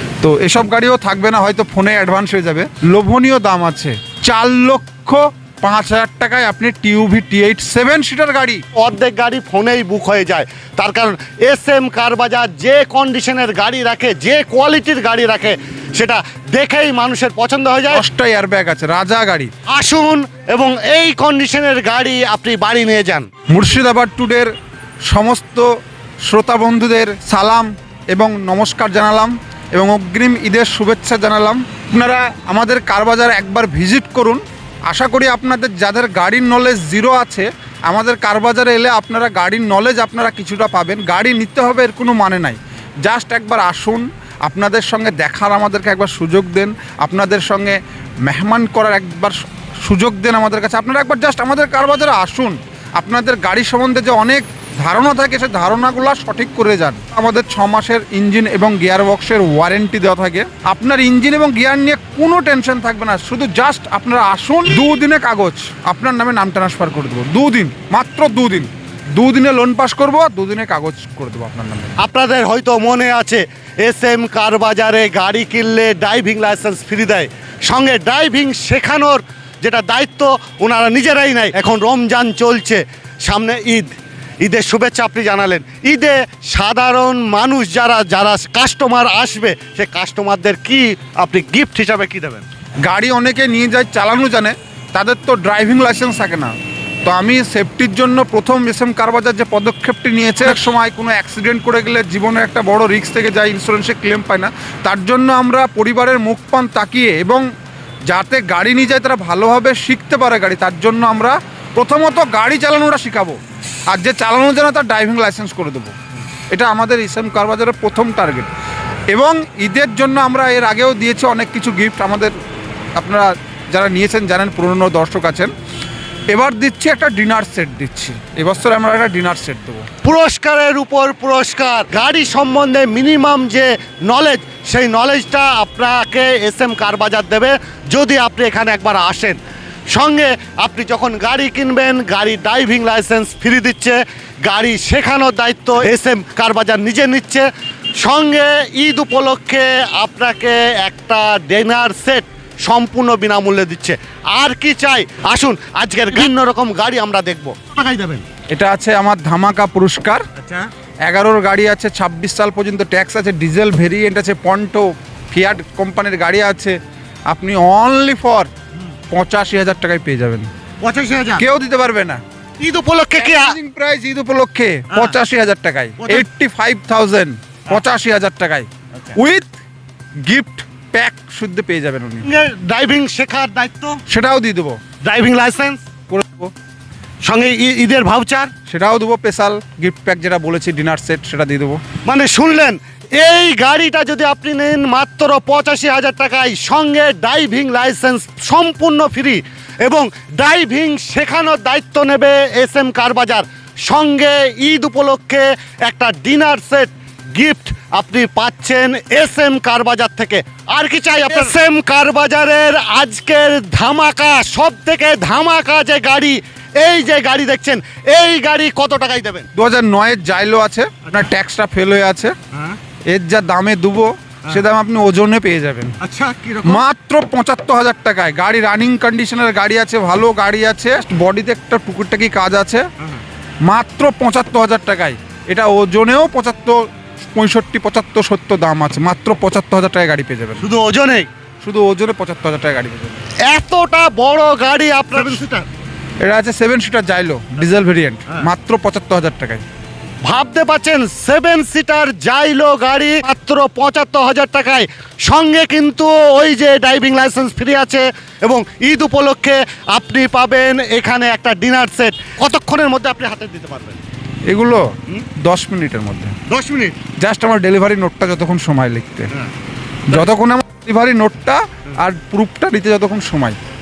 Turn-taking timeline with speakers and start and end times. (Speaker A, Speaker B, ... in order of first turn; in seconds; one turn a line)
Speaker A: 0.2-8.6
Speaker B: 8.7-18.0
Speaker A: 17.9-19.5
Speaker B: 19.7-23.3
Speaker A: 23.5-24.5
Speaker A: 25.1-71.9
Speaker B: 72.0-92.4
Speaker A: 92.8-96.5
Speaker A: 97.0-107.5
Speaker A: 108.1-116.0
Speaker A: 116.5-118.5
Speaker A: 119.1-122.3
Speaker A: 123.0-125.5
Speaker A: 126.3-129.9
Speaker B: 130.0-139.4
Speaker B: 139.9-147.5
Speaker B: 148.0-158.2
Speaker A: 158.5-160.3
Speaker B: 160.4-160.7
Speaker A: 161.0-168.5
Speaker A: 169.1-170.5
Speaker B: 170.8-171.4
Speaker A: 171.4-172.2
Speaker B: 172.6-173.6
Speaker A: 173.2-179.5
Speaker B: 174.9-175.2
Speaker B: 176.0-176.2
Speaker A: 180.2-182.3
Speaker B: 182.2-184.0
Speaker A: 184.1-184.8
Speaker B: 185.0-185.8
Speaker A: 186.1-186.5
Speaker B: 187.2-188.5
Speaker A: 188.7-191.8
Speaker B: 192.1-219.5
Speaker A: 219.5-222.4
Speaker B: 222.5-222.8
Speaker A: 223.1-225.9
Speaker B: 226.0-226.8
Speaker A: 226.6-232.9
Speaker A: 233.7-240.6
Speaker B: 240.6-241.3
Speaker A: 241.6-243.2
Speaker B: 243.4-245.7
Speaker A: 246.2-249.6
Speaker B: 250.2-264.0
Speaker A: 264.5-266.4
Speaker B: 266.5-267.0
Speaker A: 267.1-269.3
Speaker A: 270.1-273.6